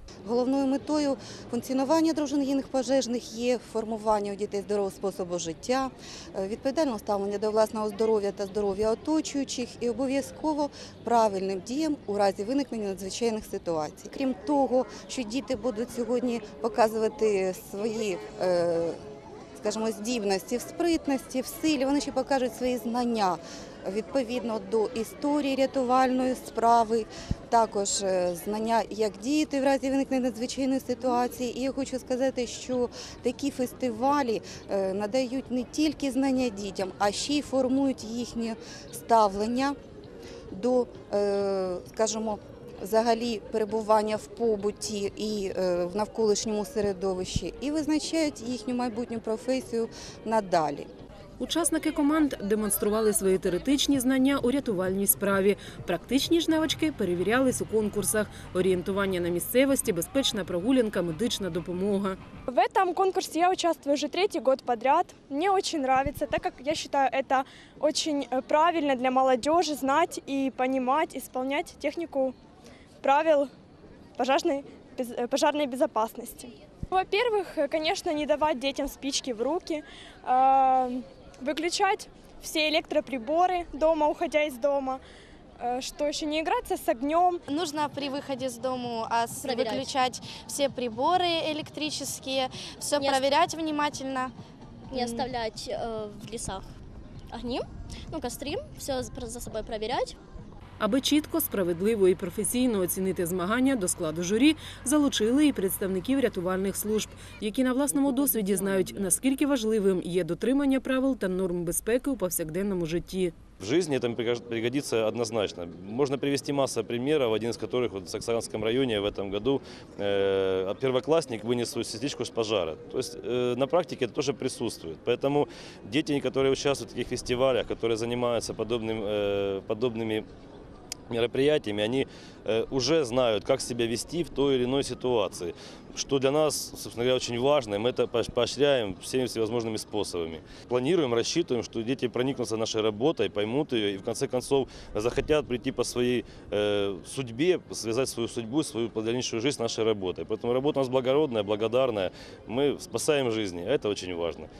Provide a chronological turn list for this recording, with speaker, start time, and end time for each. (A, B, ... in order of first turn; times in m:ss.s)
0:00.2-0:19.0 A
0:19.6-0:39.8 A
0:40.5-0:50.9 A
0:51.4-1:02.2 B
1:02.5-1:12.3 C
1:13.0-1:13.5 C
1:14.2-1:25.0 C
1:25.6-1:27.4 C
1:27.5-1:34.3 D
1:29.4-1:29.9 E
1:34.9-1:36.6 E
1:34.9-1:35.3 D
1:37.3-1:40.2 E
1:40.8-1:53.3 B
1:53.6-2:10.2 F
2:11.1-2:34.5 F